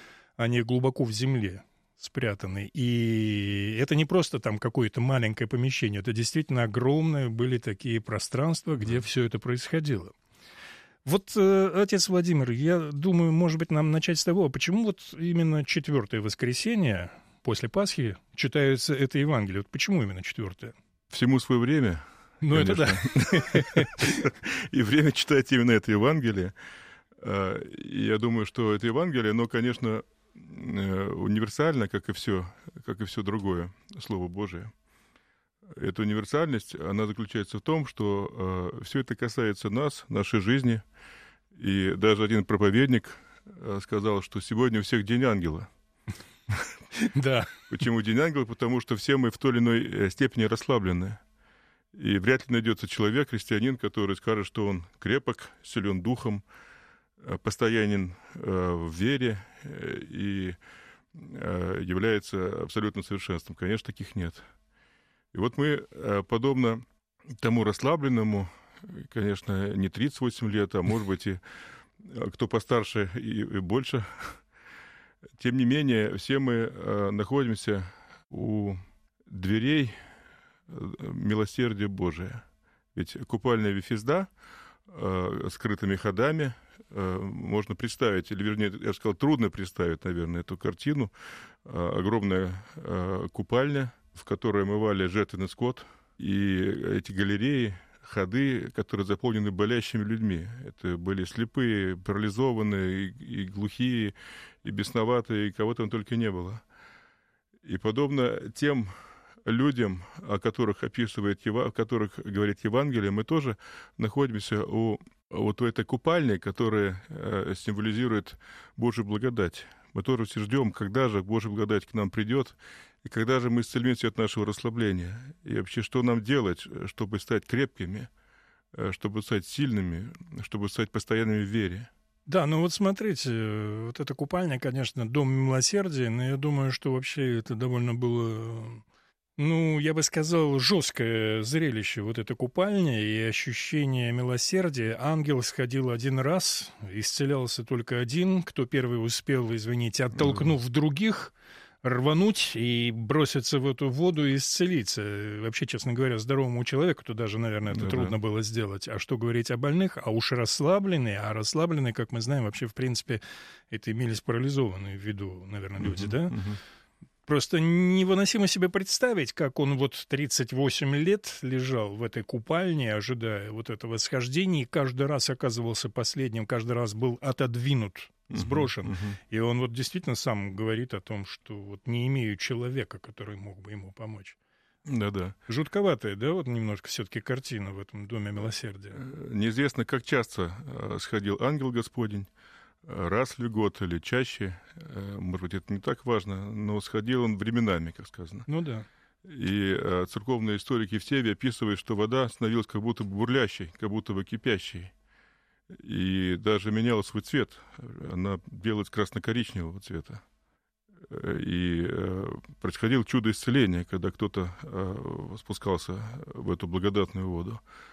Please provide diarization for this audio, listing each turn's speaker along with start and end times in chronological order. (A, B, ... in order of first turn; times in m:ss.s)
0:00.4-0:10.1 A
0:11.0-0:20.8 A
0:21.1-0:26.5 B
0:22.4-0:24.1 A
0:27.2-0:34.7 B
0:35.7-0:40.8 B
0:41.6-0:45.7 B
0:47.0-0:47.6 A
0:47.7-0:51.2 B
0:51.9-0:56.4 B
0:57.2-1:00.6 B
1:01.1-1:04.5 B
1:05.3-1:06.8 B
1:07.4-1:11.4 B
1:12.0-1:14.4 B
1:15.4-1:20.0 B
1:20.7-1:24.3 B
1:24.9-1:31.1 B
1:31.6-1:46.6 B
1:47.6-1:48.9 B
1:49.4-2:08.1 B
2:08.7-2:11.9 B
2:12.3-2:18.8 A
2:19.4-2:46.4 A
2:30.2-2:30.5 B
2:37.7-2:38.2 B
2:45.8-2:46.6 B
2:47.3-3:04.4 A
2:58.3-2:59.2 B
3:04.9-3:05.4 B
3:05.5-3:09.0 A
3:08.9-3:12.3 B
3:12.8-3:18.5 B
3:18.5-3:18.9 A
3:19.2-3:24.9 B
3:25.7-3:30.2 B
3:31.1-3:37.6 B